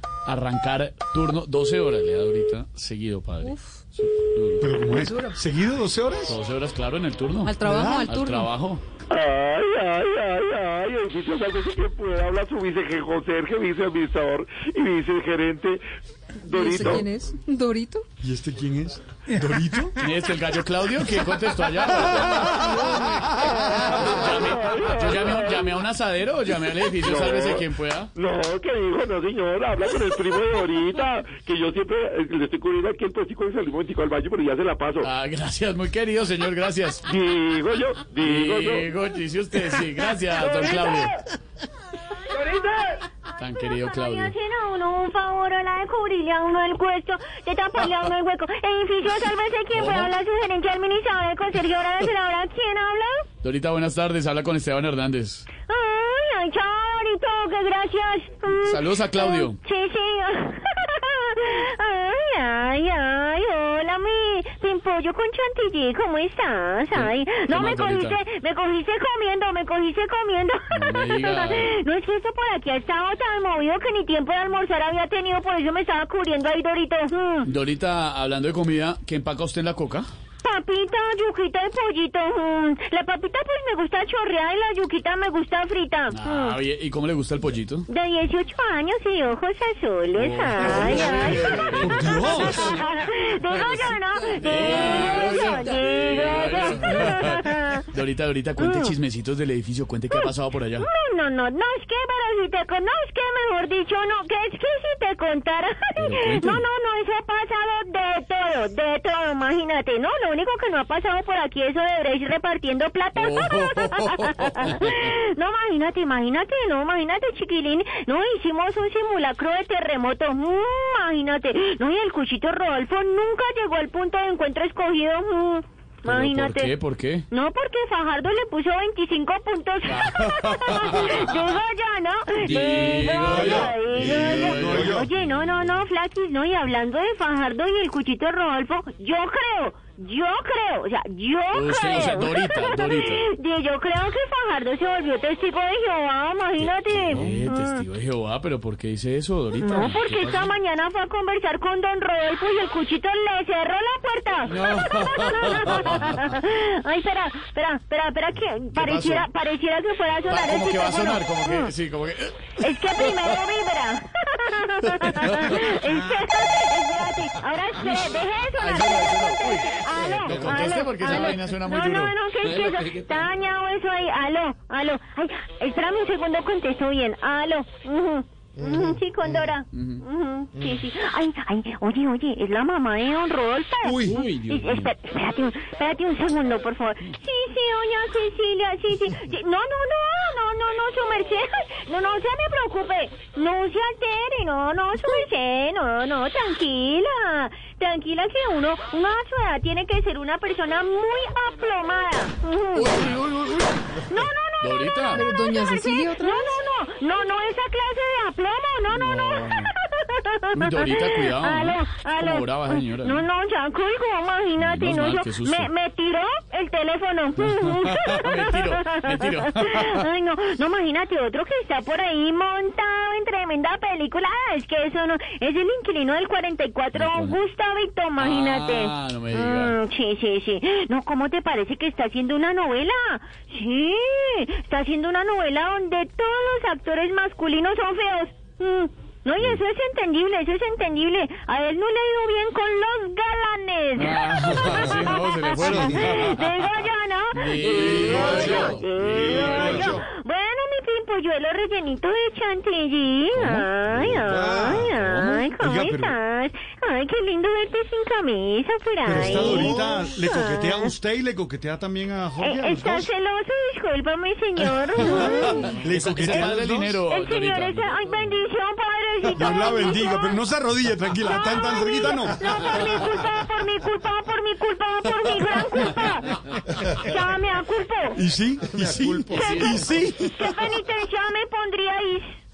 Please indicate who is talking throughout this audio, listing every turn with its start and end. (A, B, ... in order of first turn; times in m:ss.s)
0:00.2-0:04.6 A
0:04.6-0:06.4 B
0:06.3-0:08.8 A
0:07.4-0:08.5 C
0:07.6-0:08.2 B
0:09.1-0:15.8 D
0:16.4-0:17.1 D
0:16.5-0:18.0 C
0:18.2-0:20.0 B
0:20.0-0:28.1 A
0:24.0-0:25.6 D
0:27.0-0:35.1 D
0:35.0-0:37.0 A
0:37.1-0:38.8 D
0:38.2-0:41.2 A
0:40.3-0:41.2 E
0:42.5-0:42.9 E
0:43.3-0:44.3 A
0:43.6-0:53.3 E
0:49.7-0:50.2 A
0:53.4-0:55.5 A
0:55.7-1:17.5 E
0:58.5-0:59.6 A
1:06.9-1:08.2 A
1:10.7-1:11.7 A
1:17.4-1:20.1 A
1:20.4-1:26.6 E
1:26.1-1:27.9 A
1:27.9-1:37.9 E
1:30.1-1:32.5 A
1:31.4-1:32.8 B
1:34.4-1:40.9 A
1:38.6-1:38.9 E
1:40.1-2:06.7 E
1:46.0-1:46.6 A
1:53.2-1:55.1 A
2:06.0-2:07.2 A
2:07.3-2:27.8 E
2:09.8-2:11.4 A
2:12.4-2:15.8 A
2:13.1-2:15.1 B
2:21.5-2:23.2 A
2:27.0-2:30.5 A
2:29.6-2:41.7 E
2:34.5-2:36.3 A
2:38.7-2:39.3 A
2:40.3-2:42.6 A
2:42.6-4:20.9 E
2:44.9-2:45.7 A
2:47.8-2:52.1 A
2:59.7-3:00.0 A
3:03.9-3:04.1 B
3:04.0-3:04.9 A
3:22.7-3:25.3 A
3:25.1-3:26.6 C
3:28.9-3:29.7 A
3:30.5-3:33.3 A
3:34.6-3:35.7 A
3:37.4-3:40.0 A
3:46.9-3:47.4 A
3:48.2-3:49.8 A
4:04.0-4:06.6 A
4:07.3-4:10.0 A
4:07.8-4:10.1 B
4:13.3-4:13.7 A
4:13.9-4:16.2 B
4:14.8-4:15.4 A
4:19.0-4:23.1 B
4:22.4-4:25.8 E
4:25.0-4:27.0 B
4:25.8-4:27.9 A
4:27.1-4:30.4 E
4:29.4-4:32.9 B
4:31.2-4:38.2 E
4:38.1-4:40.6 B
4:39.2-4:42.3 E
4:39.3-4:40.0 A